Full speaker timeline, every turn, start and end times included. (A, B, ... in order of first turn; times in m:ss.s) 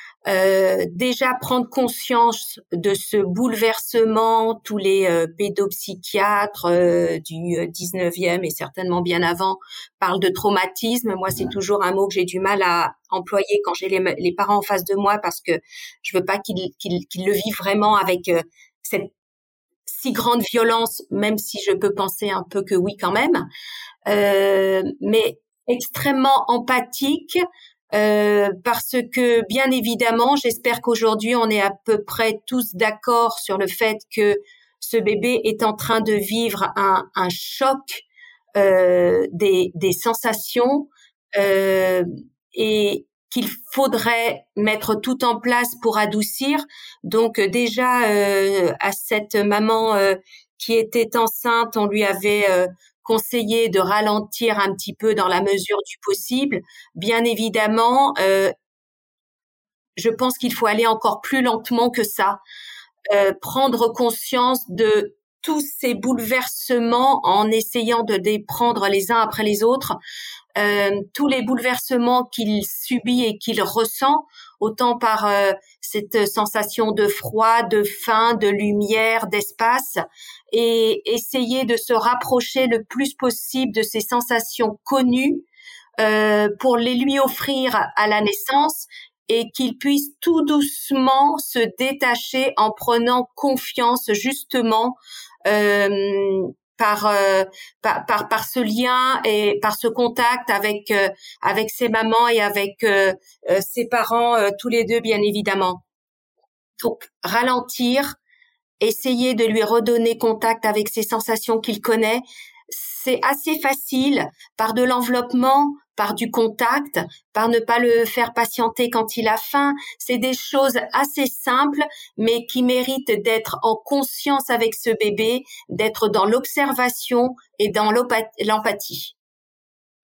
0:00.3-0:19.1 A
0:19.9-0:23.5 A
0:24.1-0:27.4 A
0:27.9-0:38.0 A
0:38.6-0:58.5 A
1:00.0-1:02.4 A
1:03.1-1:10.0 A
1:10.6-1:25.4 A
1:26.0-1:45.8 A
1:46.8-1:48.2 A
1:48.8-2:09.1 A